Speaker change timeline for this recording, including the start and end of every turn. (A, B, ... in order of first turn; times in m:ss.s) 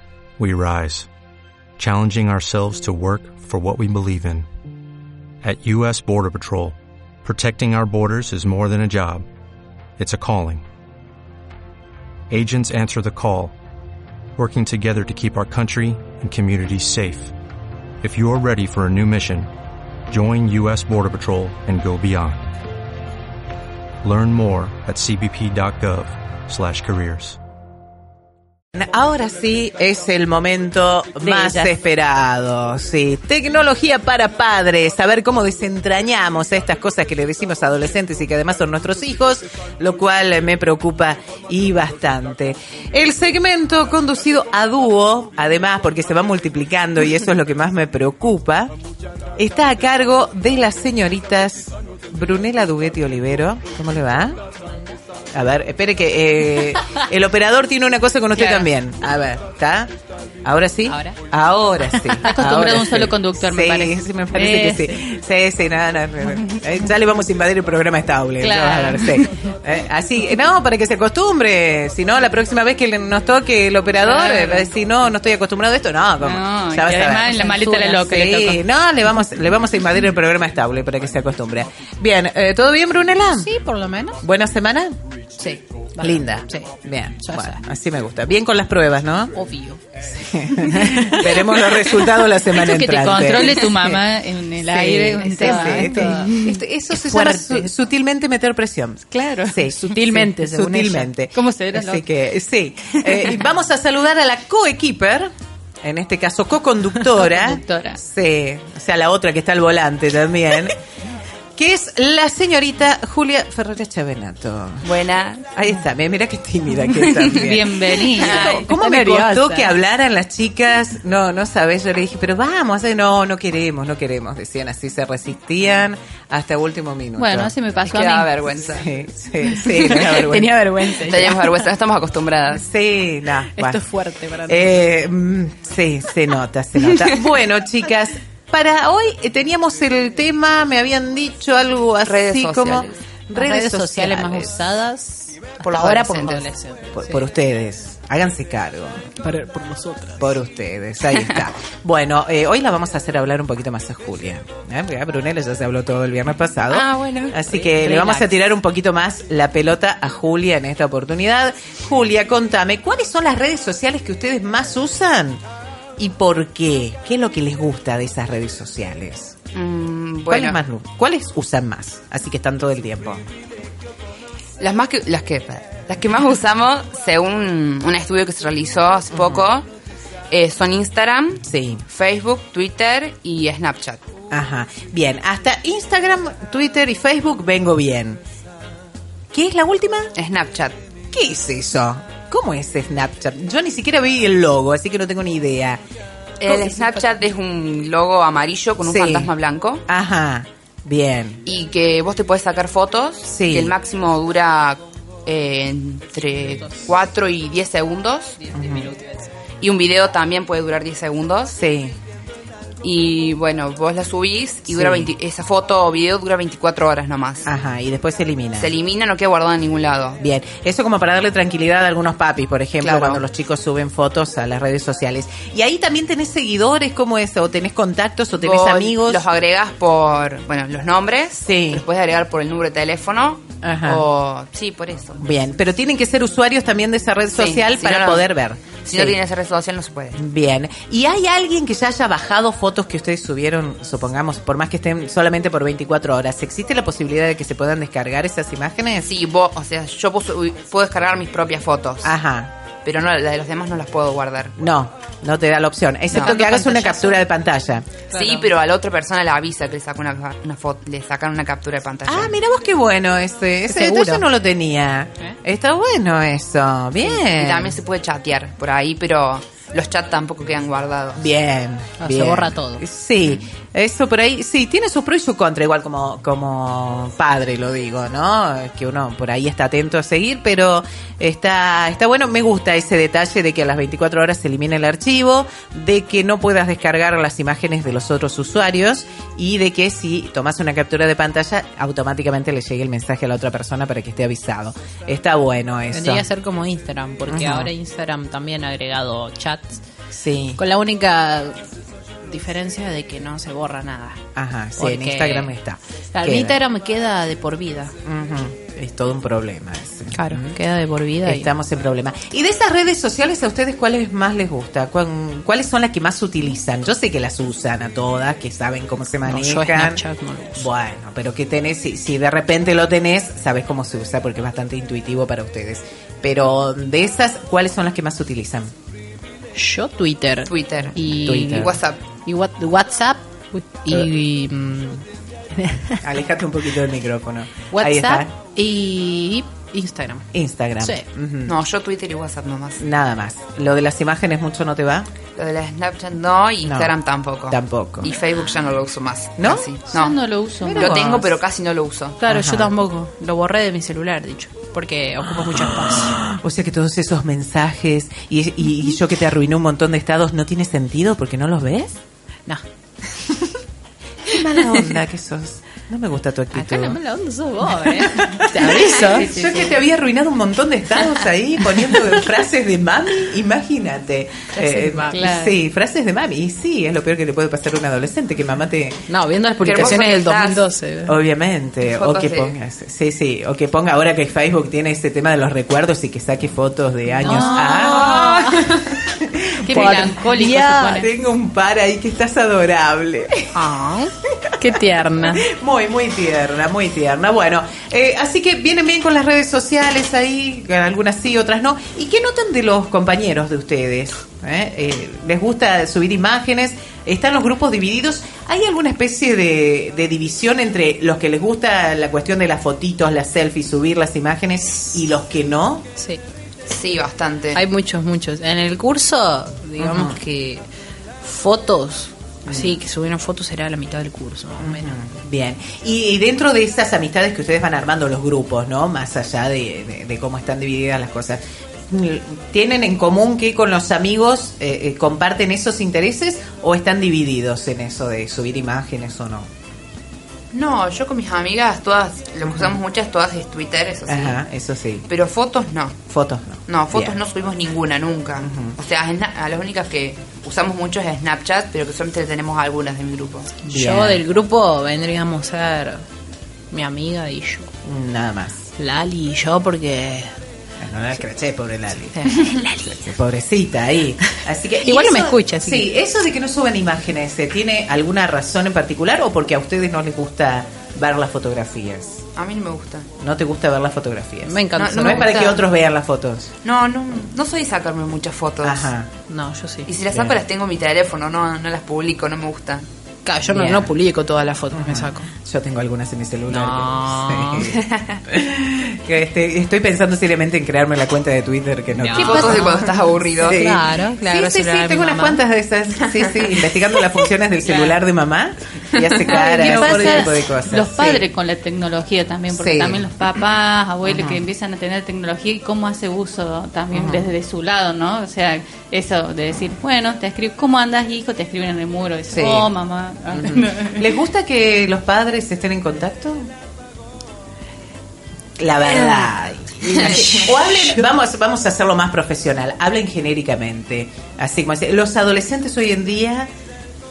0:00.4-0:01.1 A
0:01.8-0:04.5 A
0:05.4-0:09.2 A
0:10.0-0:10.6 A
0:12.3-0:13.6 A
0:14.4-0:17.3 A
0:18.0-0:19.5 A
0:20.1-0:22.4 A
0:24.0-0:27.4 A
0:28.8-0:48.7 B
0:31.2-0:31.7 C
0:49.4-0:54.4 B
0:55.3-0:59.9 B
0:58.4-0:58.7 C
1:00.4-1:23.5 B
1:00.9-1:01.2 D
1:02.2-1:05.0 C
1:08.4-1:09.3 C
1:14.0-1:14.7 C
1:16.2-1:18.6 C
1:17.4-1:18.1 D
1:23.3-1:24.2 D
1:24.2-1:25.0 B
1:25.4-1:27.6 D
1:26.0-1:29.3 B
1:29.3-1:29.8 D
1:30.0-1:34.0 B
1:30.7-1:31.4 D
1:32.6-1:36.6 C
1:34.7-1:45.3 B
1:34.8-1:36.4 D
1:37.0-1:37.7 D
1:39.1-1:40.3 C
1:40.0-1:41.1 D
1:41.3-1:42.1 C
1:45.8-1:50.8 B
1:47.2-1:48.0 C
1:51.6-1:54.9 B
1:54.8-1:55.5 E
1:55.5-2:07.5 B
1:57.1-1:57.5 E
1:57.4-1:59.6 C
2:07.2-2:08.3 C
2:07.8-2:08.9 E
2:08.7-2:10.7 B
2:09.7-2:10.1 E
2:10.0-2:11.5 D
2:11.0-2:12.7 E
2:12.6-2:13.8 B
2:13.5-2:14.9 D
2:14.5-2:24.6 B
2:16.8-2:17.2 E
2:22.0-2:22.9 E
2:23.3-2:27.2 D
2:25.6-2:26.5 E
2:26.9-2:29.1 B
2:29.1-2:30.4 D
2:30.2-2:45.4 B
2:36.7-2:38.3 E
2:46.0-2:49.4 B
2:49.5-2:50.6 E
2:50.3-2:53.2 B
2:54.6-2:59.7 E
2:59.1-2:59.4 B
3:00.3-3:04.0 E
3:01.4-3:01.8 B
3:04.3-3:08.2 B
3:09.3-3:10.1 B
3:10.2-3:10.8 E
3:11.1-3:15.8 B
3:16.4-3:19.8 E
3:16.5-3:17.1 D
3:18.8-3:19.3 B
3:19.9-3:21.4 B
3:21.4-3:28.4 E
3:23.2-3:23.8 B
3:26.3-3:26.9 D
3:28.4-3:29.3 D
3:28.5-3:28.9 B
3:29.6-3:31.6 E
3:31.5-3:32.0 B
3:32.8-3:37.5 E
3:34.7-3:35.1 B
3:37.4-3:38.7 B
3:38.6-3:40.2 E
3:40.2-3:49.2 B
3:42.8-3:43.2 E
3:48.4-3:55.3 E
3:51.4-3:51.8 B
3:53.6-3:54.0 B
3:55.2-3:59.2 B
3:57.4-3:58.3 E
3:58.8-4:00.2 E
4:00.2-4:09.1 B
4:09.0-4:12.2 E
4:12.0-4:12.5 B
4:12.8-4:14.5 E
4:14.6-4:18.0 B
4:16.1-4:17.1 E
4:16.3-4:17.2 D
4:18.1-4:18.4 D
4:18.1-4:22.4 E
4:22.1-4:27.8 B
4:23.7-4:24.3 D
4:27.0-4:31.3 E
4:31.2-4:56.3 B
4:32.0-4:32.8 D
4:55.9-4:59.8 D
4:57.3-4:57.7 B
5:00.1-5:00.6 B
5:00.6-5:01.7 D
5:02.2-5:04.2 D
5:04.4-5:06.6 B
5:04.8-5:05.5 D
5:06.1-5:08.0 D
5:08.0-5:10.5 B
5:10.1-5:11.5 D
5:11.2-5:20.0 B
5:19.2-5:20.7 D
5:20.6-5:28.7 B
5:29.5-5:31.7 D
5:30.5-5:32.0 E
5:31.0-5:31.8 B
5:32.2-5:36.0 D
5:36.0-5:38.3 B
5:37.7-5:40.3 D
5:40.3-5:41.6 B
5:41.5-5:42.8 E
5:42.8-5:45.1 B
5:45.4-5:50.2 E
5:46.6-5:47.0 B
5:47.5-5:48.1 B
5:49.4-5:49.7 B
5:49.9-5:51.0 C
5:50.6-5:51.4 B
5:50.7-5:52.2 E
5:52.2-5:56.2 D
5:52.3-5:52.7 B
5:56.0-6:02.0 B
6:04.3-6:07.0 B
6:06.5-6:09.3 D
6:07.8-6:19.0 B
6:08.9-6:09.8 C
6:14.5-6:15.3 D
6:15.1-6:15.5 C
6:19.1-6:21.2 D
6:19.6-6:20.6 E
6:21.1-6:33.6 B
6:21.8-6:22.6 E
6:27.2-6:28.7 D
6:27.3-6:28.2 C
6:29.6-6:31.1 C
6:29.7-6:30.2 D
6:33.5-6:35.4 D
6:35.3-6:55.9 B
6:56.0-6:56.2 D
6:56.7-6:57.6 E
6:57.5-7:00.6 D
6:59.8-7:00.2 B
7:01.2-7:04.9 D
7:02.5-7:02.8 B
7:04.6-7:19.5 B
7:20.5-7:24.4 E
7:22.4-7:22.8 B
7:24.1-7:25.1 B
7:25.1-7:26.0 E
7:26.1-7:27.2 B
7:26.7-7:33.5 E
7:28.4-7:28.8 B
7:33.7-7:36.0 D
7:33.7-7:34.2 B
7:36.7-7:37.7 D
7:37.8-7:38.6 B
7:38.8-7:40.4 D
7:40.8-7:52.2 B
7:42.1-7:43.1 D
7:44.8-7:45.9 D
7:52.4-7:53.1 E
7:53.2-7:56.5 B
7:54.4-7:55.6 D
7:54.8-7:55.6 E
7:56.6-7:58.9 E
7:58.6-7:59.1 B
7:59.3-7:59.9 D
7:59.9-8:02.9 E
8:00.1-8:00.4 B
8:03.2-8:05.3 D
8:03.4-8:03.9 B
8:04.7-8:12.8 B
8:06.5-8:07.7 D
8:07.7-8:08.2 E
8:11.9-8:15.4 D
8:12.2-8:13.6 E
8:13.4-8:21.3 B
8:16.3-8:16.7 E
8:17.6-8:18.0 E
8:19.0-8:20.4 E
8:19.3-8:34.1 C
8:22.5-8:23.1 B
8:24.0-8:24.5 B
8:26.9-8:27.3 B
8:32.3-8:32.7 B
8:33.3-8:36.5 B
8:38.6-8:46.5 B
8:39.9-8:40.2 D
8:39.9-8:40.5 E